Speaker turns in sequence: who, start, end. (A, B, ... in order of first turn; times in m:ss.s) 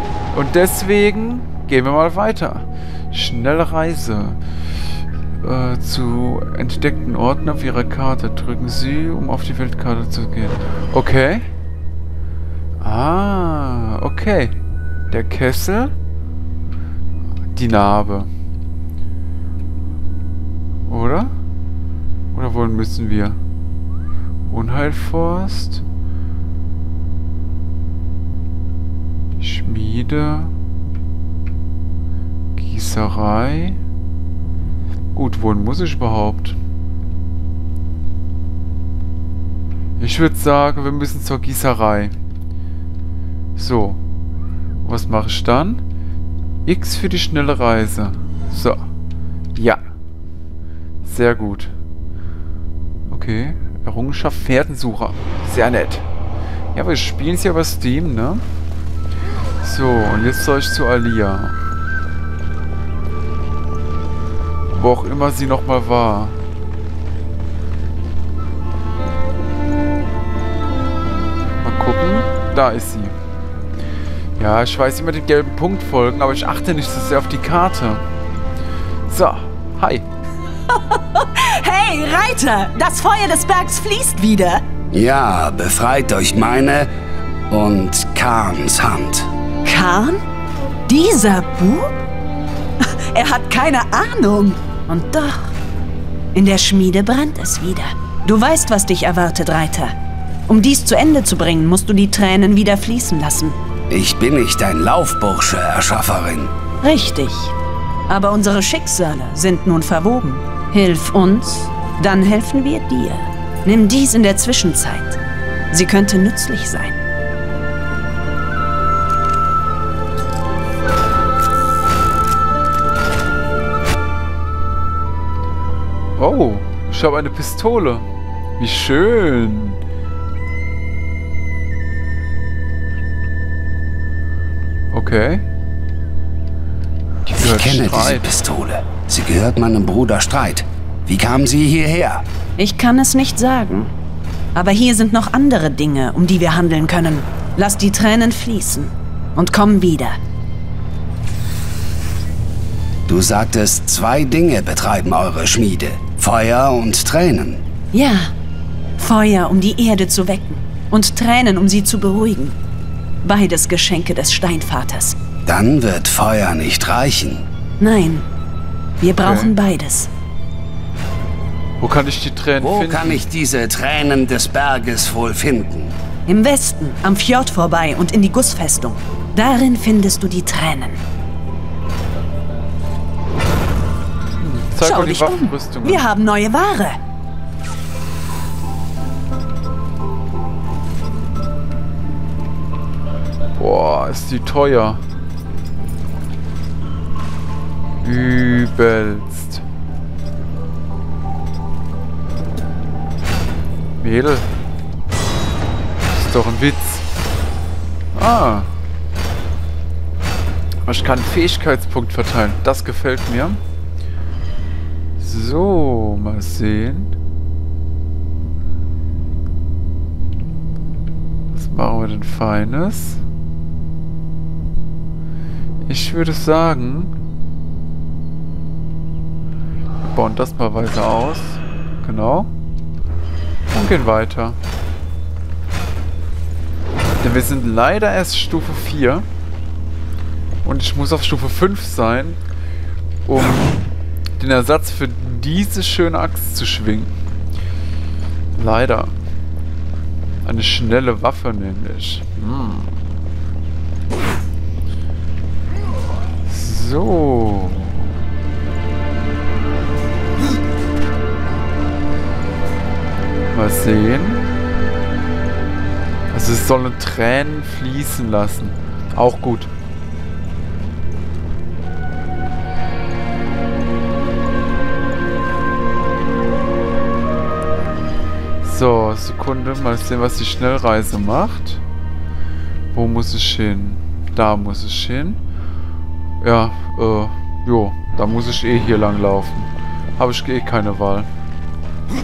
0:00.3-0:04.4 A
0:05.4-0:11.5 A
0:12.8-0:14.6 A
0:15.1-0:15.9 A
0:17.5-0:18.3 A
0:20.8-0:21.3 A
0:22.3-0:23.4 A
0:24.5-0:25.8 A
0:29.4-0:30.5 A
0:32.6-0:33.8 A
0:35.1-0:36.6 A
0:40.0-0:42.1 A
0:43.6-0:44.0 A
0:44.8-0:45.8 A
0:46.6-0:48.8 A
0:49.5-0:49.8 A
0:51.0-0:51.7 A
0:53.0-0:56.0 A
0:56.7-0:58.4 A
0:59.6-1:01.6 A
1:04.7-1:06.4 A
1:11.6-1:13.1 A
1:14.4-1:18.0 A
1:19.1-1:20.0 A
1:20.7-1:24.6 B
1:24.9-1:26.9 C
1:27.5-1:29.3 C
1:29.6-1:30.2 B
1:30.9-1:32.0 B
1:32.8-1:35.6 B
1:36.3-1:39.9 B
1:40.5-1:43.6 B
1:43.9-1:46.5 C
1:46.8-1:47.5 B
1:48.1-1:55.2 B
1:55.7-1:57.0 B
2:06.2-2:08.0 A
2:08.6-2:09.8 A
2:14.9-2:15.4 A
2:17.2-2:18.3 A
2:17.4-2:22.2 C
2:22.6-2:23.9 B
2:24.5-2:30.2 B
2:33.1-2:37.6 C
2:37.9-2:38.3 B
2:39.0-2:42.6 B
2:43.2-2:45.2 B
2:45.4-2:47.4 C
2:47.8-2:48.2 B
2:49.0-2:50.1 B
2:49.2-2:49.5 A
2:51.8-2:53.2 A
2:52.6-2:56.0 C
2:56.3-3:01.0 B
3:04.4-3:06.0 A
3:04.8-3:07.0 B
3:13.6-3:15.0 A
3:18.0-3:19.6 A
3:24.0-3:24.5 A
3:26.1-3:27.1 A
3:28.1-3:28.7 A
3:30.8-3:33.6 A
3:35.2-3:37.1 A
3:41.5-3:43.2 A
3:45.8-3:47.1 A
3:50.0-3:52.5 A
3:53.7-3:54.6 A
3:57.2-3:59.2 A
4:00.6-4:02.4 A
4:03.2-4:03.8 A
4:04.4-4:07.1 A
4:08.5-4:09.1 A
4:10.4-4:12.9 A
4:16.4-4:18.1 A
4:23.5-4:24.4 A
4:26.3-4:29.7 A
4:38.6-4:41.8 A
4:42.9-4:45.4 A
4:46.4-4:51.3 A